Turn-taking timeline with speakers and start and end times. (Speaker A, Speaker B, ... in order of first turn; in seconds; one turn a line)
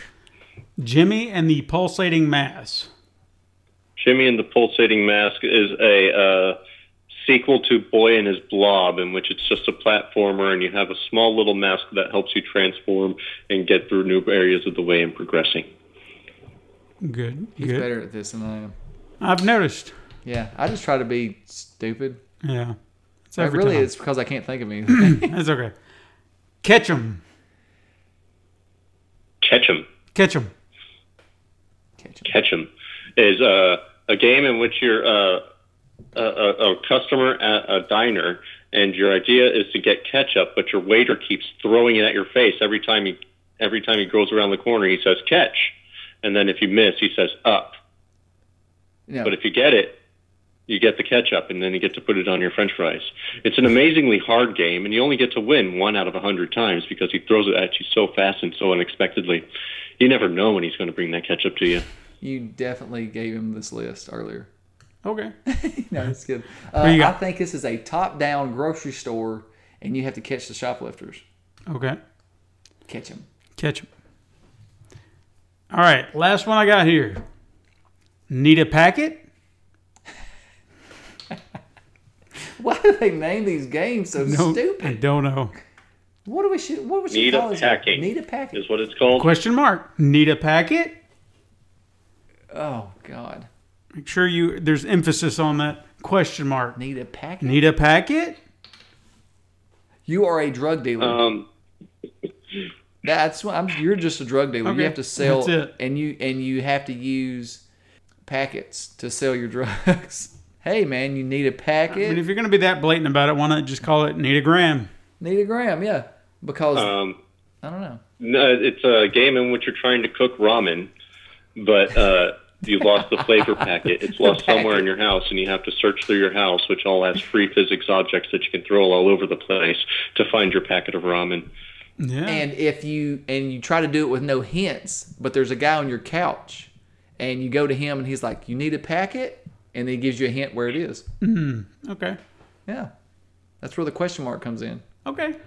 Speaker A: 0.8-2.9
Speaker B: 4.0-6.6
Speaker B: 7.2-15.7
Speaker A: 17.0-17.9
Speaker C: 17.6-18.7
Speaker A: 19.2-19.9
Speaker C: 20.2-22.2
Speaker A: 22.4-22.8
Speaker A: 23.3-23.9
Speaker C: 23.4-25.3
Speaker A: 24.9-25.7
Speaker A: 26.6-27.2
Speaker B: 29.4-29.9
Speaker A: 30.1-30.5
Speaker C: 32.0-32.3
Speaker B: 32.2-35.4
Speaker B: 36.1-47.7
Speaker C: 49.1-49.3
Speaker B: 49.2-50.0
Speaker B: 50.7-59.5
Speaker B: 60.0-61.8
Speaker C: 62.2-64.5
Speaker A: 65.0-65.3
Speaker C: 65.5-71.2
Speaker A: 66.8-67.1
Speaker A: 71.7-72.0
Speaker C: 72.9-73.2
Speaker A: 73.6-73.9
Speaker A: 75.7-77.2
Speaker A: 78.3-79.2
Speaker C: 82.6-85.0
Speaker A: 84.2-85.5
Speaker C: 86.2-88.6
Speaker B: 87.1-89.3
Speaker A: 89.2-91.0
Speaker C: 92.5-93.5
Speaker A: 94.0-96.8
Speaker C: 96.8-97.6
Speaker A: 97.4-98.4
Speaker C: 100.0-101.2
Speaker B: 101.0-101.5
Speaker C: 103.0-107.6
Speaker A: 104.6-105.7
Speaker C: 108.2-112.2
Speaker A: 111.9-114.9
Speaker C: 115.2-116.9
Speaker B: 116.7-117.2
Speaker C: 117.6-118.0
Speaker B: 118.2-120.9
Speaker B: 121.5-131.5
Speaker C: 124.2-124.9
Speaker A: 132.0-132.4
Speaker C: 132.2-141.1
Speaker A: 141.2-142.2
Speaker C: 143.6-144.8
Speaker A: 145.1-145.4